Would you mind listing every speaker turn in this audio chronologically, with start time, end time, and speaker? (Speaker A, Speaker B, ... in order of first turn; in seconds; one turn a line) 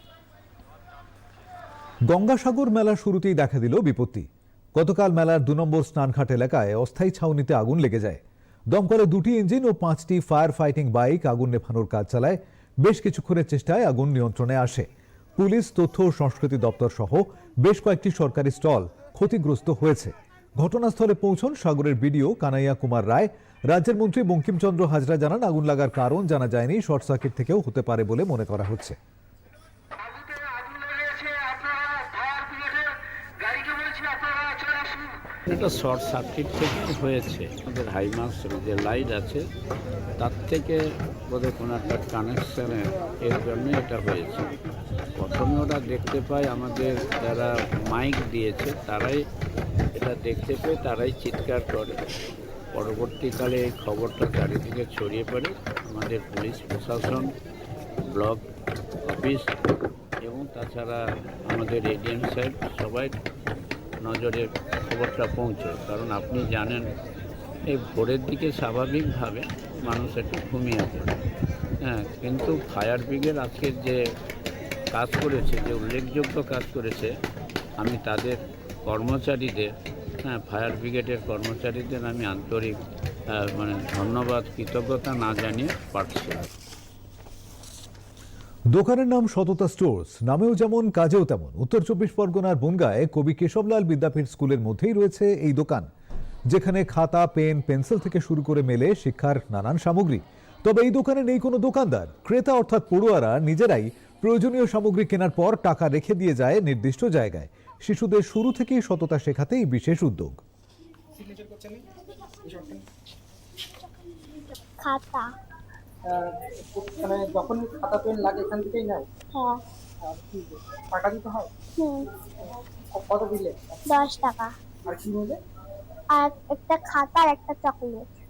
Speaker A: 2.0-29.0
Speaker B: 35.5-39.5
Speaker B: 40.2-44.5
Speaker B: 45.1-49.2
Speaker B: 49.9-52.0
Speaker B: 52.7-57.3
Speaker B: 58.1-58.5
Speaker B: 59.0-59.5
Speaker B: 60.2-63.2
Speaker B: 64.0-67.0
Speaker B: 67.7-71.1
Speaker B: 71.8-74.0
Speaker B: 74.9-77.1
Speaker B: 77.8-79.7
Speaker B: 80.2-82.8
Speaker B: 83.3-86.4
Speaker A: 88.7-95.9
Speaker A: 96.5-110.4
Speaker C: 111.1-111.8
Speaker C: 112.4-112.8
Speaker D: 114.8-115.3
Speaker C: 116.0-119.1
Speaker D: 119.3-119.6
Speaker C: 120.0-121.5
Speaker D: 121.8-122.1
Speaker C: 122.9-123.8
Speaker D: 123.8-124.5
Speaker C: 124.9-125.4
Speaker D: 126.1-128.1